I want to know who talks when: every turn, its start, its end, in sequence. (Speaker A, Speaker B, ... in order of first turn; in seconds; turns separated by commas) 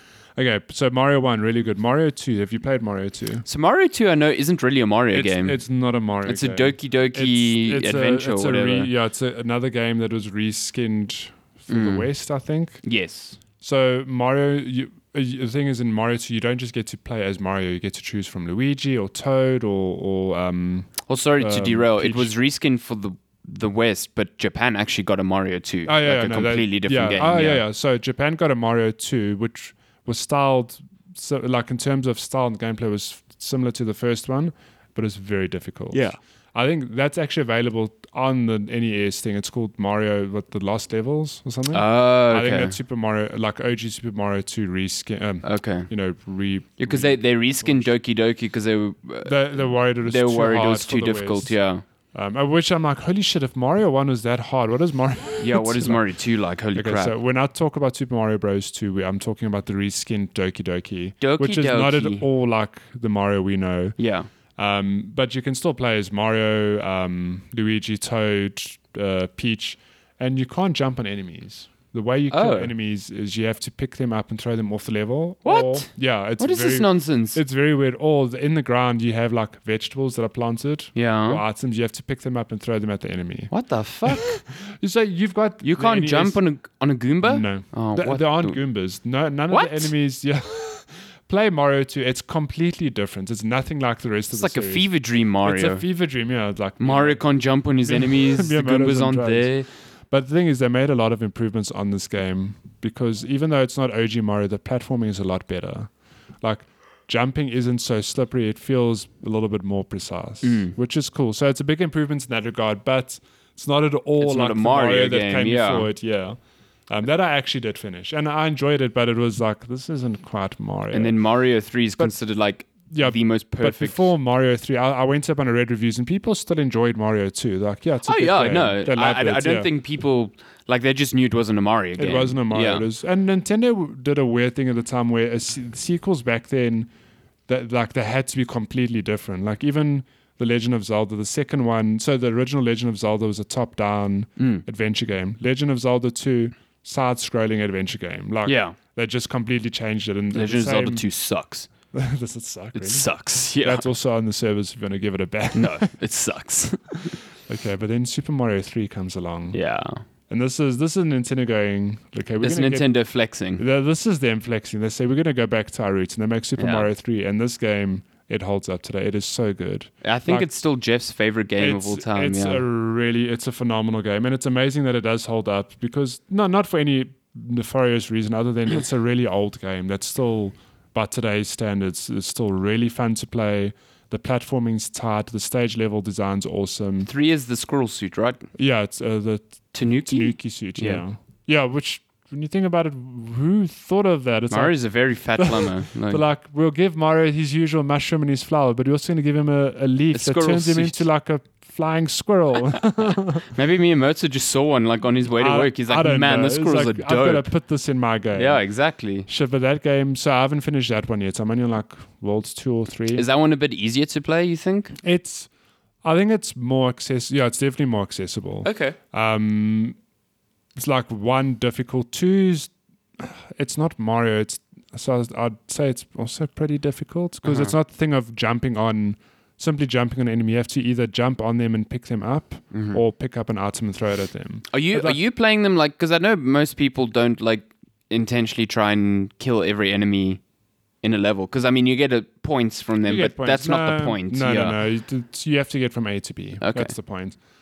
Speaker A: 0.4-3.4, Speaker B: 3.4-5.6, Speaker A: 5.1-12.8, Speaker B: 6.2-8.9, Speaker B: 11.7-12.1, Speaker B: 12.8-13.4, Speaker A: 13.6-22.3, Speaker B: 21.1-27.6, Speaker A: 25.9-47.9, Speaker B: 35.9-36.2, Speaker B: 41.7-42.8, Speaker B: 45.4-45.9, Speaker B: 46.8-51.8, Speaker A: 49.2-51.5, Speaker A: 52.1-56.0, Speaker B: 55.4-57.1, Speaker A: 56.7-64.0, Speaker B: 61.2-62.2, Speaker B: 64.0-64.3, Speaker A: 64.6-83.5, Speaker B: 72.3-72.7, Speaker B: 75.4-77.4, Speaker B: 80.9-81.4, Speaker B: 83.5-84.4, Speaker A: 84.1-86.4, Speaker B: 85.6-88.6, Speaker A: 87.2-94.9, Speaker B: 89.5-89.9, Speaker B: 94.3-95.8, Speaker A: 95.4-97.2, Speaker B: 96.8-99.7, Speaker A: 97.8-99.5, Speaker A: 100.1-116.4, Speaker B: 110.4-110.8, Speaker B: 114.2-115.9, Speaker A: 116.9-121.2, Speaker B: 120.9-124.1, Speaker A: 122.9-129.7, Speaker B: 128.1-132.9, Speaker A: 132.0-136.9, Speaker A: 137.5-151.0, Speaker B: 144.4-144.6, Speaker B: 148.4-148.8, Speaker B: 150.3-151.7, Speaker A: 151.9-155.9, Speaker B: 152.8-153.8, Speaker B: 155.5-157.2, Speaker A: 157.1-159.6, Speaker B: 159.5-160.0, Speaker A: 160.3-162.9, Speaker B: 162.4-163.6, Speaker A: 163.6-170.5, Speaker B: 166.6-166.9, Speaker B: 170.0-172.6, Speaker A: 171.6-187.1, Speaker B: 187.0-188.5, Speaker A: 188.5-194.8, Speaker B: 189.7-191.0, Speaker B: 194.5-196.2, Speaker A: 195.4-203.4, Speaker B: 200.1-201.0, Speaker B: 203.4-207.5, Speaker A: 205.4-208.6, Speaker B: 208.3-209.3, Speaker A: 209.2-213.2, Speaker B: 213.1-215.0, Speaker A: 215.0-215.5, Speaker A: 216.0-220.0, Speaker B: 218.6-219.0, Speaker A: 220.8-235.2, Speaker B: 227.4-227.7, Speaker B: 232.7-233.0, Speaker B: 234.7-240.4, Speaker B: 241.0-244.8, Speaker A: 243.0-247.4, Speaker B: 246.6-246.9